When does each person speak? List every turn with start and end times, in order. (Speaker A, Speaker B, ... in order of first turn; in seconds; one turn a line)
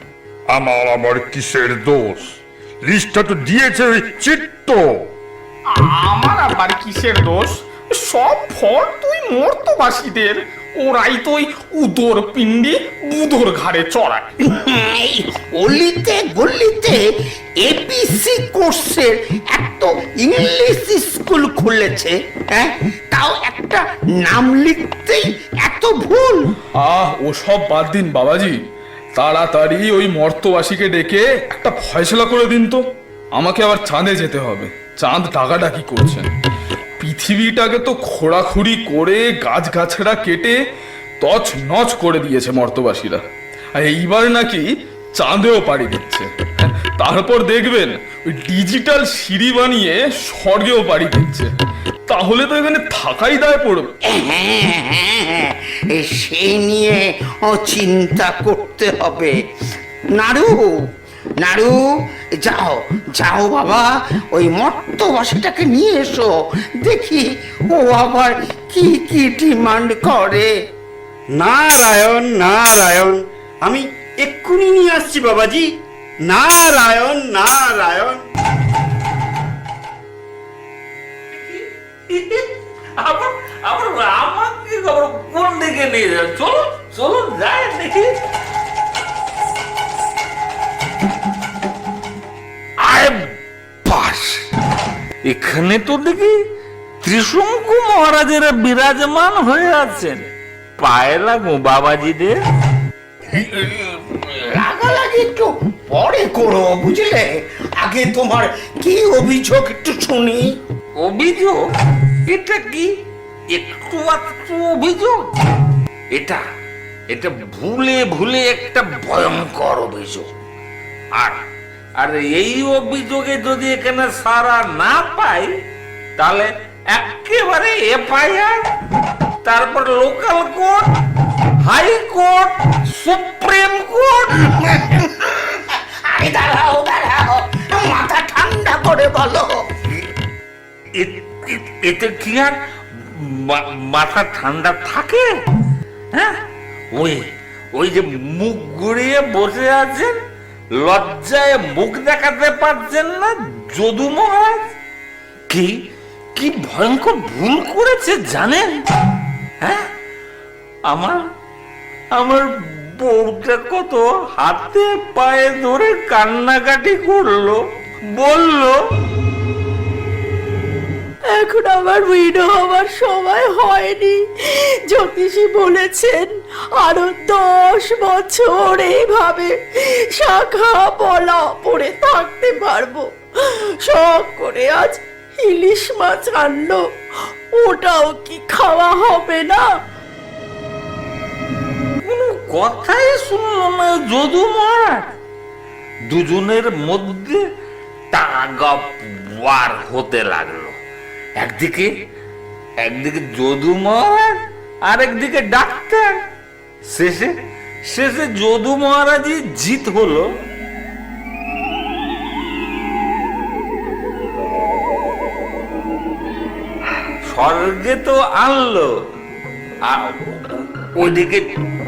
Speaker A: 0.5-5.0
Speaker B: 5.7-14.3
Speaker C: 14.4-17.0
Speaker C: 17.6-26.4
Speaker D: 26.8-28.6
Speaker D: 29.1-32.8
Speaker D: 33.4-36.3
Speaker D: 37.0-40.6
Speaker D: 41.2-43.2
Speaker D: 43.8-44.6
Speaker D: 45.2-46.3
Speaker D: 47.0-51.5
Speaker D: 52.1-53.9
Speaker C: 54.1-59.3
Speaker C: 60.1-60.6
Speaker C: 61.4-61.7
Speaker C: 62.4-70.5
Speaker E: 71.4-75.7
Speaker E: 76.3-78.2
Speaker F: 81.3-88.1
Speaker F: 92.8-93.3
Speaker F: 93.8-94.4
Speaker F: 95.2-96.3
Speaker F: 97.0-100.2
Speaker F: 100.8-102.3
Speaker C: 103.3-107.3
Speaker C: 107.8-110.4
Speaker F: 111.0-111.6
Speaker F: 112.3-112.9
Speaker F: 113.5-115.2
Speaker F: 116.1-116.4
Speaker F: 117.1-120.3
Speaker F: 122.0-125.5
Speaker F: 126.2-128.6
Speaker F: 129.4-130.8
Speaker F: 131.6-134.5
Speaker C: 134.7-139.7
Speaker F: 140.9-145.2
Speaker F: 146.9-150.1
Speaker F: 150.8-154.7
Speaker F: 156.3-158.7
Speaker F: 159.6-159.8
Speaker F: 160.9-161.2
Speaker F: 162.2-167.6
Speaker F: 168.2-168.8
Speaker G: 171.3-186.8
Speaker G: 187.6-189.6
Speaker F: 192.0-195.0
Speaker F: 196.1-197.4
Speaker F: 198.1-200.7
Speaker F: 201.4-201.9
Speaker F: 202.8-206.1
Speaker F: 206.9-207.3
Speaker F: 207.8-210.2
Speaker F: 217.3-218.9
Speaker F: 219.8-221.5